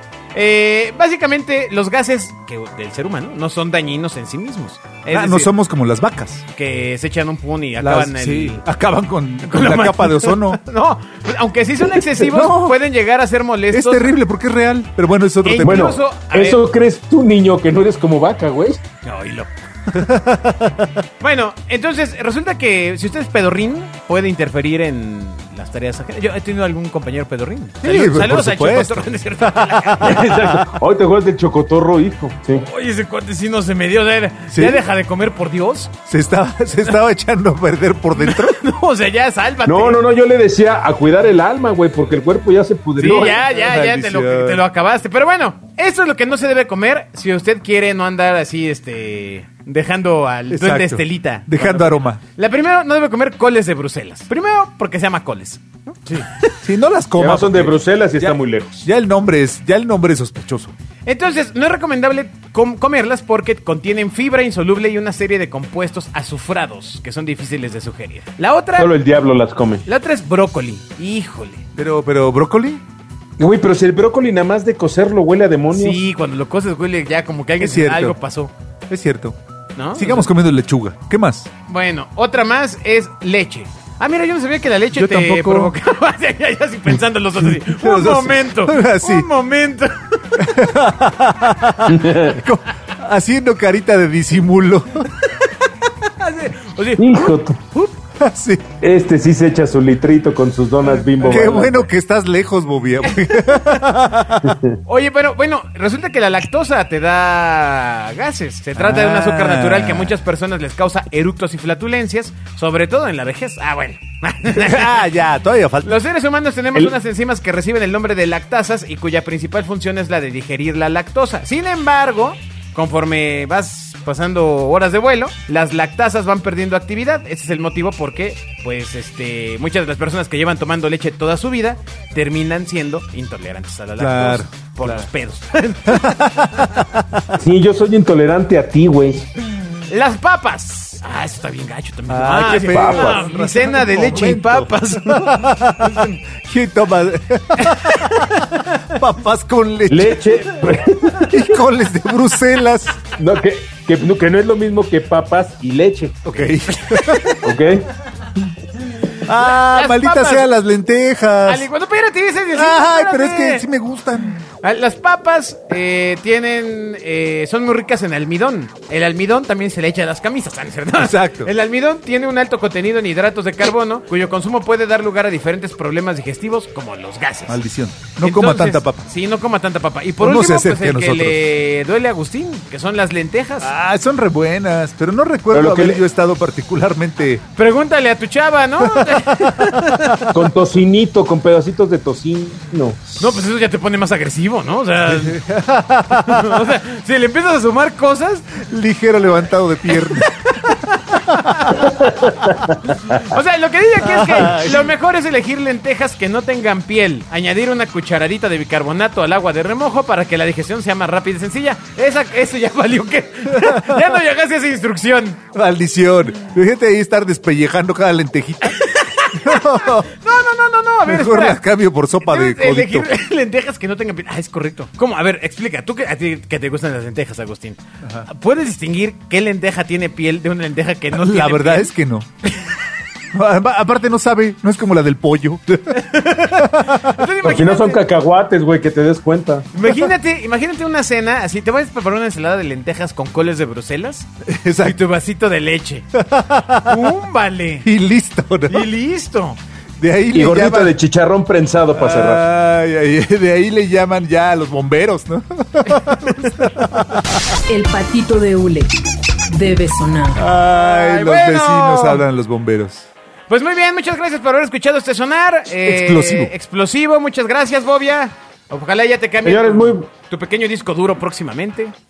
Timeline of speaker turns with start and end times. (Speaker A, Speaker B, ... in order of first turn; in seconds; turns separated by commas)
Speaker A: 0.3-5.5, Speaker B: 5.1-6.4, Speaker A: 6.5-8.6, Speaker B: 7.8-10.6, Speaker A: 9.4-14.1, Speaker B: 12.2-12.8, Speaker B: 13.7-16.0, Speaker A: 15.4-16.6, Speaker C: 15.6-18.8, Speaker A: 19.0-19.5, Speaker B: 19.9-21.0, Speaker A: 21.2-30.5, Speaker B: 27.8-30.7, Speaker C: 30.0-32.6, Speaker A: 32.5-36.0, Speaker B: 34.5-34.8, Speaker B: 36.0-38.6, Speaker A: 38.2-40.0, Speaker C: 39.6-43.4, Speaker B: 43.0-44.6, Speaker A: 43.0-56.5, Speaker B: 50.5-52.2, Speaker B: 56.6-60.7, Speaker C: 57.2-58.9, Speaker A: 61.0-69.0, Speaker C: 68.8-69.8, Speaker A: 69.8-71.7, Speaker B: 71.8-72.8, Speaker C: 73.4-76.0, Speaker A: 75.7-78.5, Speaker B: 77.6-78.2, Speaker B: 78.9-79.4, Speaker A: 79.8-80.3, Speaker B: 79.9-81.5, Speaker A: 81.7-90.2, Speaker B: 84.9-85.7, Speaker B: 87.4-89.3, Speaker B: 90.3-95.1, Speaker C: 91.9-92.4, Speaker A: 95.2-97.9, Speaker C: 97.0-97.6, Speaker B: 98.2-98.7, Speaker C: 98.8-101.9, Speaker B: 101.2-104.5, Speaker C: 104.4-104.8, Speaker A: 104.8-115.0, Speaker B: 108.8-110.1, Speaker B: 114.4-116.0, Speaker A: 115.8-136.6, Speaker B: 134.0-135.0, Speaker B: 135.9-137.3, Speaker C: 137.3-139.3, Speaker A: 139.9-146.2, Speaker B: 142.1-150.4, Speaker C: 142.5-143.3, Speaker A: 147.6-148.4, Speaker C: 149.9-151.3, Speaker B: 151.3-153.0, Speaker C: 153.2-156.2, Speaker B: 156.2-157.4, Speaker A: 156.7-157.4, Speaker C: 157.4-157.9, Speaker B: 159.2-161.7, Speaker A: 159.3-160.5, Speaker A: 161.4-163.6, Speaker B: 162.5-164.4, Speaker A: 164.6-177.6, Speaker B: 170.9-171.5, Speaker B: 177.5-179.1, Speaker A: 178.2-183.7, Speaker B: 180.2-181.4, Speaker B: 183.6-187.4, Speaker C: 185.5-186.0, Speaker A: 187.6-190.2, Speaker B: 188.8-190.3, Speaker C: 190.3-193.2, Speaker A: 193.2-195.4, Speaker B: 195.1-196.7, Speaker A: 196.1-198.6, Speaker B: 198.6-200.3, Speaker A: 199.8-201.9, Speaker B: 201.1-201.9, Speaker C: 202.0-202.7, Speaker A: 203.1-215.4, Speaker B: 204.0-204.9, Speaker B: 213.5-214.0, Speaker B: 215.5-218.8, Speaker A: 218.7-221.6, Speaker B: 219.3-220.1, Speaker B: 221.1-223.1, Speaker A: 222.2-231.9, Speaker B: 231.1-232.3, Speaker B: 233.3-237.2, Speaker A: 235.9-238.0, Speaker C: 237.4-239.7, Speaker A: 239.7-244.3, Speaker B: 244.4-245.0, Speaker A: 244.8-246.2, Speaker B: 246.1-247.1, Speaker A: 246.8-247.9, Speaker B: 247.8-248.9, Speaker A: 248.7-249.6, Speaker B: 250.0-250.9, Speaker C: 250.3-252.4, Speaker B: 251.9-257.6, Speaker D: 257.7-258.9, Speaker D: 259.5-260.4, Speaker B: 260.3-263.1, Speaker A: 260.7-262.2, Speaker A: 263.5-271.9, Speaker B: 265.9-266.5, Speaker C: 269.4-270.1